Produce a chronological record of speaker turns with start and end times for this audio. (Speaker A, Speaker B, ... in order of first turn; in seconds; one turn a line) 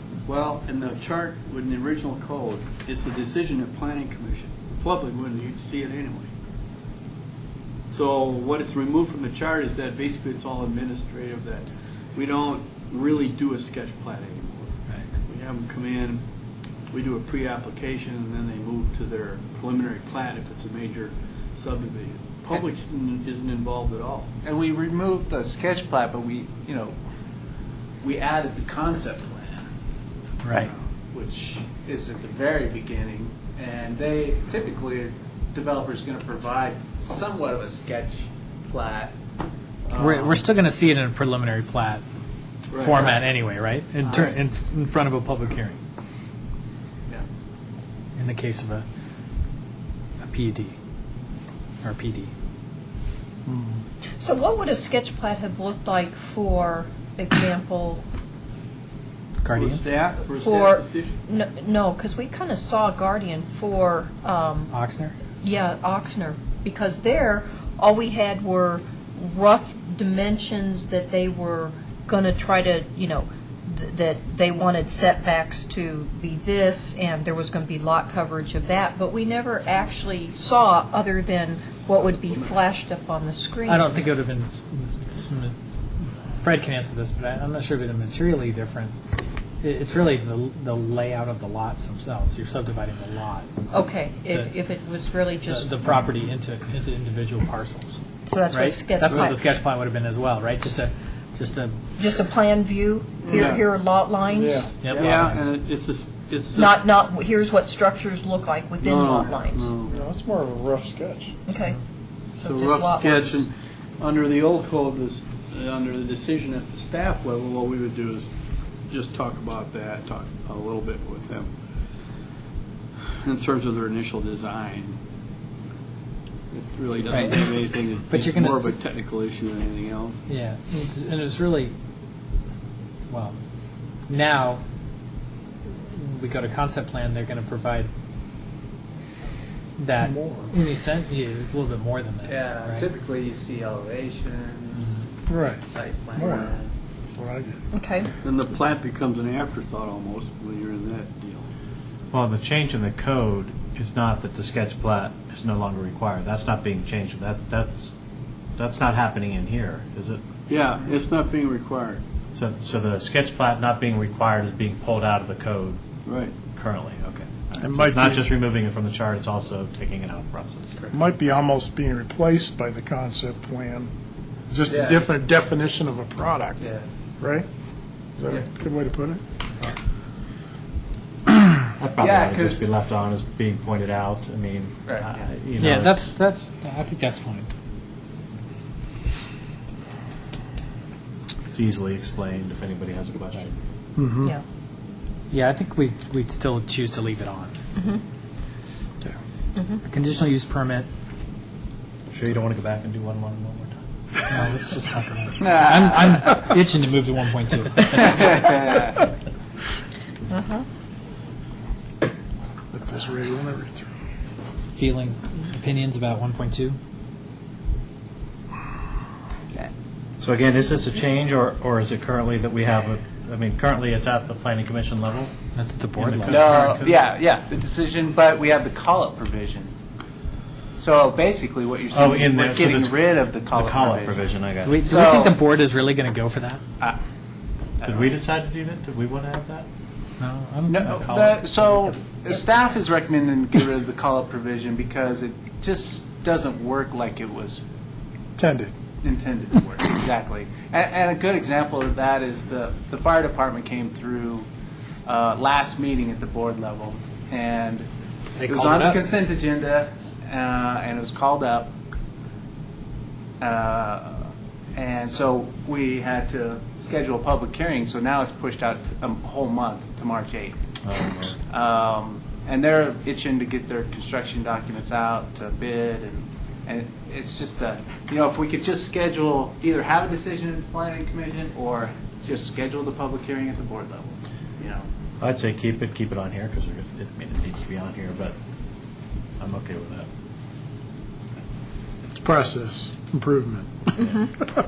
Speaker A: 0.2-6.3
Speaker A: 7.9-16.2
Speaker A: 16.9-24.3
Speaker B: 24.4-26.9
Speaker B: 28.0-29.6
Speaker C: 30.4-30.7
Speaker B: 30.5-39.1
Speaker B: 39.9-40.4
Speaker C: 39.9-42.0
Speaker A: 42.7-43.2
Speaker C: 42.8-45.8
Speaker B: 44.0-44.3
Speaker C: 48.1-48.8
Speaker C: 50.2-50.8
Speaker C: 51.8-52.3
Speaker D: 53.5-53.8
Speaker E: 54.2-58.0
Speaker C: 59.4-59.8
Speaker A: 59.5-61.2
Speaker E: 60.4-64.7
Speaker C: 64.7-65.2
Speaker E: 65.4-84.0
Speaker C: 83.7-85.6
Speaker C: 86.4-88.9
Speaker C: 89.6-93.6
Speaker E: 93.7-95.9
Speaker C: 95.5-101.8
Speaker E: 98.2-99.4
Speaker E: 102.0-104.6
Speaker A: 103.2-103.6
Speaker D: 104.3-104.7
Speaker C: 104.8-105.5
Speaker A: 104.9-106.8
Speaker E: 106.5-109.7
Speaker A: 108.8-109.9
Speaker D: 109.9-111.3
Speaker E: 111.5-111.8
Speaker E: 112.4-113.4
Speaker A: 112.4-118.3
Speaker A: 118.9-121.5
Speaker A: 123.2-125.0
Speaker A: 126.5-130.2
Speaker C: 127.1-127.5
Speaker C: 128.0-128.8
Speaker C: 130.3-131.7
Speaker C: 133.1-133.4
Speaker C: 134.1-134.6
Speaker C: 135.7-137.9
Speaker C: 139.8-142.9
Speaker D: 140.0-140.5
Speaker B: 142.2-145.0
Speaker D: 145.3-145.6
Speaker B: 145.6-146.7
Speaker D: 146.2-146.6
Speaker D: 147.1-147.6
Speaker E: 147.7-148.1
Speaker A: 148.2-151.5
Speaker F: 152.1-157.9
Speaker F: 158.6-160.2
Speaker A: 160.5-162.0
Speaker F: 162.3-165.8
Speaker A: 166.1-166.3
Speaker F: 166.5-170.8
Speaker D: 167.6-168.2
Speaker D: 170.9-173.9
Speaker D: 174.5-177.5
Speaker B: 174.7-175.1
Speaker B: 176.6-176.8
Speaker D: 178.2-179.2
Speaker F: 181.8-186.0
Speaker B: 182.0-182.6
Speaker B: 184.8-185.2
Speaker C: 185.6-187.5
Speaker F: 191.5-193.6
Speaker D: 193.9-194.3
Speaker C: 195.3-197.5
Speaker C: 199.8-200.9
Speaker F: 202.1-203.8
Speaker C: 204.3-208.4
Speaker B: 205.4-205.9
Speaker B: 207.9-209.0
Speaker E: 210.3-210.6
Speaker D: 212.7-213.9
Speaker C: 214.8-216.8
Speaker F: 220.2-225.3
Speaker C: 225.5-226.8
Speaker F: 226.0-226.9
Speaker B: 226.3-229.7
Speaker B: 230.8-234.3
Speaker F: 231.9-234.9
Speaker C: 234.6-236.6
Speaker B: 234.9-235.3
Speaker B: 237.8-238.2
Speaker F: 237.8-239.7
Speaker C: 240.2-241.8
Speaker B: 240.7-247.6
Speaker D: 248.4-248.7
Speaker B: 249.0-254.5
Speaker B: 255.1-257.9
Speaker C: 258.4-259.0
Speaker B: 258.4-261.7
Speaker B: 263.4-270.6
Speaker F: 270.8-271.4
Speaker B: 271.5-284.8
Speaker F: 285.2-288.4
Speaker F: 289.4-290.1
Speaker D: 292.1-293.9
Speaker E: 294.0-294.3